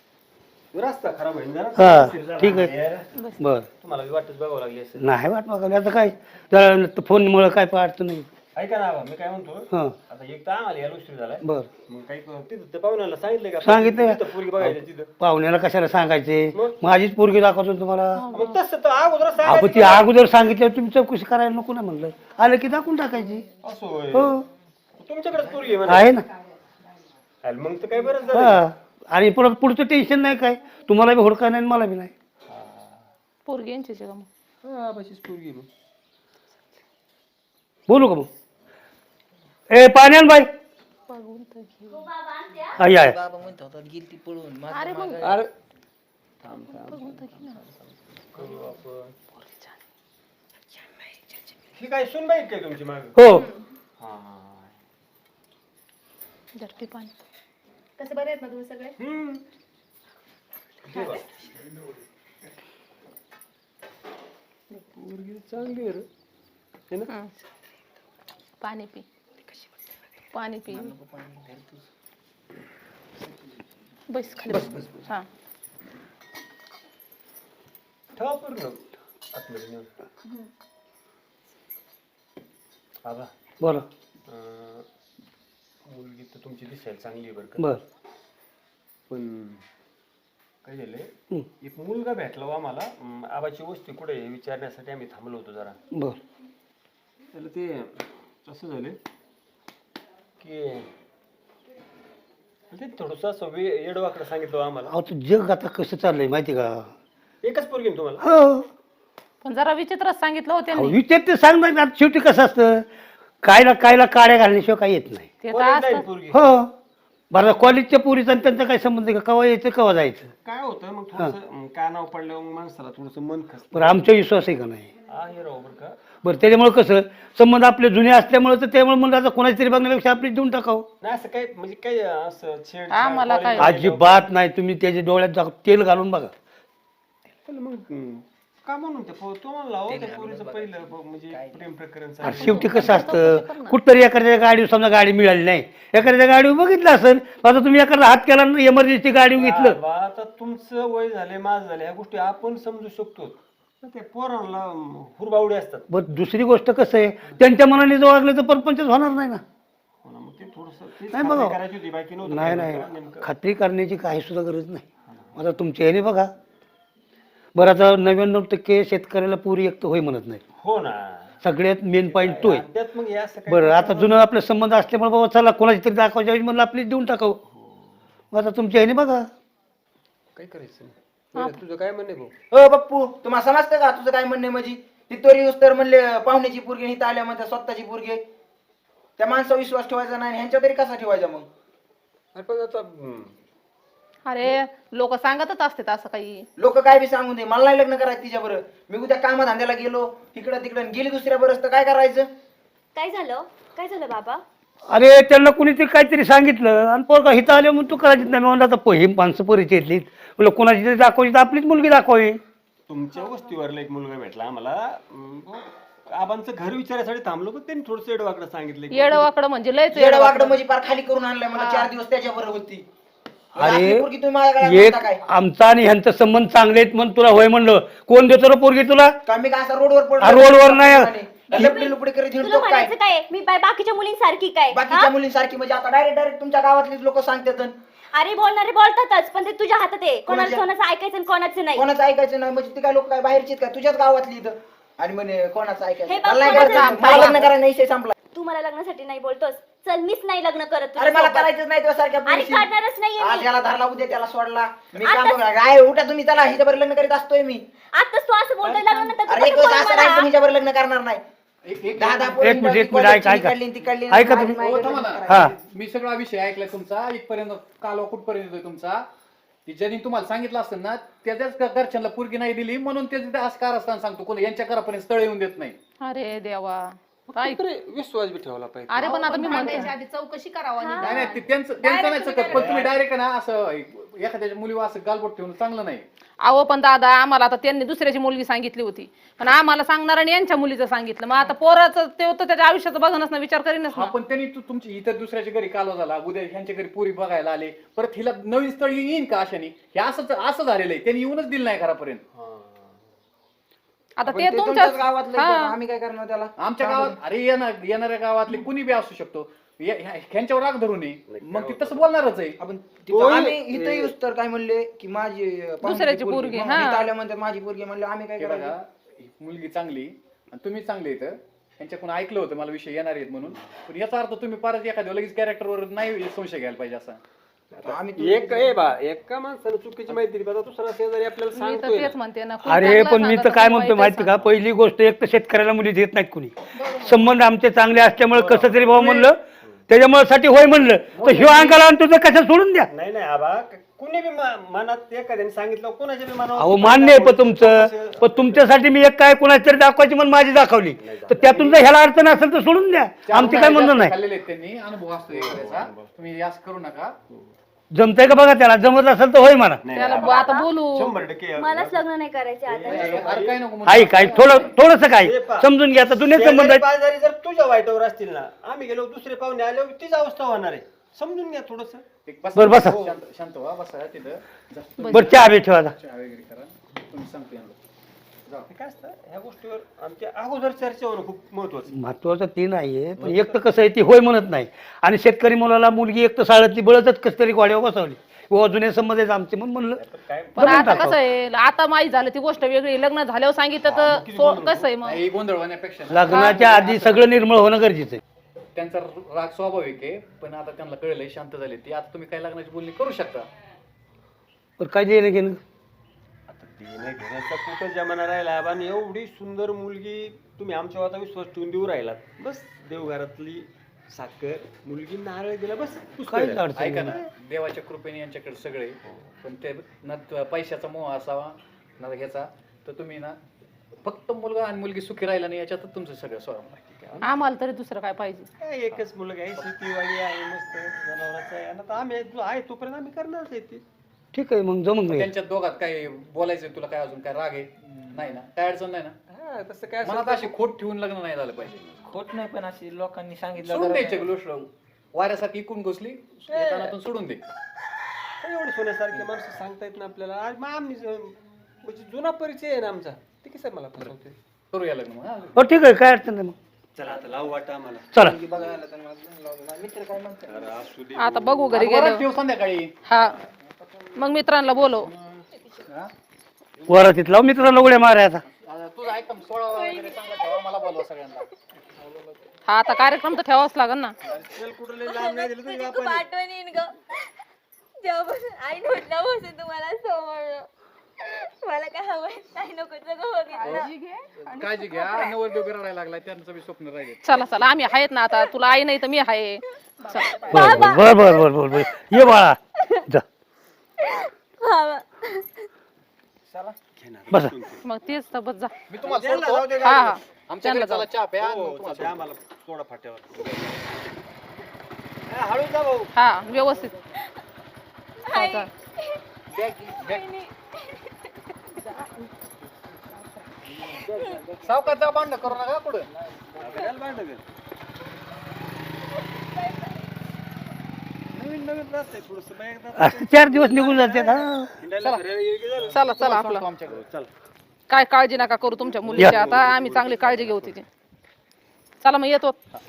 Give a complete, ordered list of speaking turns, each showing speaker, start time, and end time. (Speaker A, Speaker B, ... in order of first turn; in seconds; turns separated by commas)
Speaker A: 0.7-3.1, Speaker B: 1.8-2.7, Speaker B: 3.4-3.7, Speaker A: 3.8-5.0, Speaker B: 5.0-8.3, Speaker A: 8.6-15.1, Speaker B: 11.4-11.7, Speaker B: 13.6-18.2, Speaker C: 18.2-18.6, Speaker A: 18.3-20.1, Speaker B: 19.4-23.5, Speaker A: 23.6-24.4, Speaker B: 24.1-24.4, Speaker A: 25.0-26.1, Speaker B: 25.9-26.2, Speaker A: 27.4-28.6, Speaker B: 28.3-32.1, Speaker A: 32.5-33.1, Speaker C: 33.5-34.3, Speaker A: 34.6-35.7, Speaker B: 37.9-38.3, Speaker B: 39.7-40.5, Speaker C: 41.1-42.1, Speaker D: 41.9-42.8, Speaker B: 42.8-43.2, Speaker E: 42.9-45.4, Speaker C: 44.7-45.2, Speaker A: 45.2-45.5, Speaker A: 46.4-49.2, Speaker C: 46.7-47.6, Speaker C: 49.3-49.8, Speaker A: 51.8-53.2, Speaker B: 53.1-53.5, Speaker A: 54.0-54.7, Speaker C: 56.6-57.1, Speaker C: 58.0-58.9, Speaker A: 59.0-59.4, Speaker A: 60.9-61.3, Speaker A: 64.7-66.1, Speaker C: 68.6-69.0, Speaker C: 70.3-70.9, Speaker E: 70.7-71.9, Speaker E: 73.2-73.7, Speaker C: 74.1-75.2, Speaker E: 74.4-75.0, Speaker A: 78.1-78.8, Speaker A: 79.3-79.9, Speaker A: 83.0-83.3, Speaker B: 83.6-83.9, Speaker A: 84.3-84.9, Speaker A: 85.8-87.7, Speaker A: 89.1-89.6, Speaker A: 90.6-95.8, Speaker B: 95.9-96.2, Speaker A: 97.3-99.0, Speaker A: 100.4-100.9, Speaker A: 102.7-104.9, Speaker B: 104.9-106.9, Speaker A: 107.4-108.2, Speaker B: 108.2-108.7, Speaker C: 109.4-111.0, Speaker B: 110.7-112.9, Speaker B: 113.4-115.3, Speaker C: 115.4-116.0, Speaker A: 115.5-116.5, Speaker B: 116.3-116.7, Speaker B: 117.3-120.3, Speaker A: 120.4-124.1, Speaker B: 123.7-124.9, Speaker A: 125.1-126.0, Speaker B: 126.2-130.9, Speaker A: 131.0-134.2, Speaker C: 132.9-133.8, Speaker B: 133.6-136.3, Speaker A: 137.5-143.2, Speaker E: 139.9-141.6, Speaker B: 142.2-149.8, Speaker C: 142.3-143.8, Speaker A: 149.3-155.9, Speaker B: 155.9-159.4, Speaker A: 160.0-163.3, Speaker B: 161.1-161.6, Speaker B: 162.2-164.8, Speaker A: 165.1-165.4, Speaker B: 165.4-166.3, Speaker B: 167.6-170.4, Speaker A: 170.6-171.4, Speaker B: 171.4-172.7, Speaker A: 172.0-174.3, Speaker B: 173.5-177.4, Speaker A: 177.5-178.0, Speaker B: 178.3-179.3, Speaker A: 180.4-182.3, Speaker E: 182.5-188.2, Speaker E: 189.2-191.5, Speaker A: 192.3-193.3, Speaker C: 194.2-196.5, Speaker E: 196.6-202.3, Speaker D: 202.9-204.4, Speaker B: 204.9-212.4, Speaker A: 212.9-219.3, Speaker C: 218.9-220.6, Speaker E: 219.9-222.8, Speaker C: 221.5-221.9, Speaker B: 223.6-224.1, Speaker E: 223.6-225.2, Speaker B: 224.6-229.2, Speaker E: 229.2-233.0, Speaker B: 230.2-231.6, Speaker D: 231.5-235.1, Speaker E: 234.7-237.8, Speaker D: 238.1-241.8, Speaker E: 240.2-240.7, Speaker E: 241.7-248.1, Speaker D: 246.1-247.5, Speaker C: 246.5-247.3, Speaker D: 248.3-251.5, Speaker E: 250.9-257.6, Speaker D: 252.2-253.5, Speaker D: 255.0-255.5, Speaker D: 257.9-260.3, Speaker F: 258.6-259.1, Speaker E: 259.2-261.2, Speaker F: 261.6-262.6, Speaker E: 261.9-265.5, Speaker B: 262.4-264.6, Speaker F: 264.3-269.1, Speaker B: 265.2-265.5, Speaker F: 269.7-275.8, Speaker C: 276.0-277.6, Speaker A: 277.3-279.9, Speaker C: 278.9-281.4, Speaker D: 279.3-279.9, Speaker D: 280.8-282.5, Speaker F: 281.0-286.1, Speaker A: 282.4-282.9, Speaker C: 286.4-294.1, Speaker F: 293.9-302.2, Speaker A: 302.3-303.0, Speaker C: 304.2-305.7, Speaker E: 304.2-307.2, Speaker F: 306.6-312.6, Speaker A: 311.3-312.2, Speaker E: 312.6-318.8, Speaker A: 313.1-314.1, Speaker C: 315.8-317.1, Speaker F: 318.4-327.2, Speaker E: 327.8-328.9, Speaker A: 328.1-332.1, Speaker C: 331.6-334.5, Speaker B: 332.6-339.4, Speaker A: 338.3-339.8, Speaker B: 339.9-342.9, Speaker A: 341.3-341.8, Speaker A: 342.9-348.8, Speaker B: 346.6-354.1, Speaker A: 351.0-351.8, Speaker F: 353.2-357.1, Speaker A: 355.1-356.1, Speaker B: 357.9-359.8, Speaker A: 359.8-362.1, Speaker C: 359.9-361.1, Speaker D: 360.1-360.7, Speaker D: 361.6-363.3, Speaker A: 362.6-363.6, Speaker F: 362.9-364.8, Speaker B: 363.9-366.8, Speaker A: 365.2-372.1, Speaker F: 372.2-377.8, Speaker B: 372.6-373.1, Speaker C: 375.0-375.4, Speaker B: 375.1-375.9, Speaker A: 378.7-382.0, Speaker B: 381.9-390.0, Speaker A: 383.2-383.6, Speaker A: 390.0-391.1, Speaker C: 390.6-395.2, Speaker B: 390.6-391.2, Speaker A: 393.8-394.9, Speaker F: 395.0-397.2, Speaker B: 396.1-398.2, Speaker C: 396.3-396.6, Speaker F: 398.8-403.5, Speaker B: 404.8-405.6, Speaker A: 406.5-417.2, Speaker B: 416.3-417.2, Speaker F: 416.8-423.4, Speaker A: 419.0-419.3, Speaker F: 424.0-426.9, Speaker A: 426.9-427.3, Speaker C: 427.2-428.5, Speaker A: 428.6-433.8, Speaker B: 434.3-435.3, Speaker F: 435.1-439.1, Speaker A: 439.3-440.6, Speaker F: 440.0-441.9, Speaker E: 442.1-444.3, Speaker F: 443.6-447.4, Speaker A: 446.5-447.0, Speaker A: 448.4-454.4, Speaker F: 454.7-455.7, Speaker B: 455.6-456.6, Speaker A: 457.0-458.7, Speaker E: 458.2-460.7, Speaker A: 460.5-461.8, Speaker C: 461.2-462.3, Speaker F: 461.7-462.9, Speaker C: 463.1-463.4, Speaker C: 464.2-465.1, Speaker A: 464.8-465.4, Speaker B: 466.9-468.4, Speaker F: 468.5-471.5, Speaker D: 469.7-470.6, Speaker C: 472.7-474.1, Speaker A: 474.2-476.3, Speaker D: 475.0-476.9, Speaker D: 478.0-480.7, Speaker D: 481.2-483.9, Speaker C: 483.6-484.8, Speaker F: 483.6-483.9, Speaker F: 484.4-487.7, Speaker D: 484.9-485.3, Speaker C: 487.2-490.7, Speaker D: 490.3-492.3, Speaker B: 490.5-493.2, Speaker D: 494.6-495.6, Speaker A: 496.5-497.9, Speaker C: 497.8-498.7, Speaker F: 498.9-502.2, Speaker A: 499.0-500.2, Speaker C: 499.8-501.1, Speaker A: 501.4-503.8, Speaker A: 505.3-506.1, Speaker C: 506.1-507.0, Speaker C: 508.3-508.7, Speaker D: 508.3-508.6, Speaker F: 509.5-510.3, Speaker D: 510.1-510.5, Speaker E: 513.9-515.0, Speaker F: 514.6-516.1, Speaker E: 516.3-516.9, Speaker A: 516.6-517.5, Speaker A: 521.3-526.3, Speaker B: 523.0-524.7, Speaker F: 525.9-527.0, Speaker C: 525.9-526.6, Speaker A: 526.9-527.3, Speaker C: 527.9-530.9, Speaker A: 528.8-530.8, Speaker C: 532.0-532.5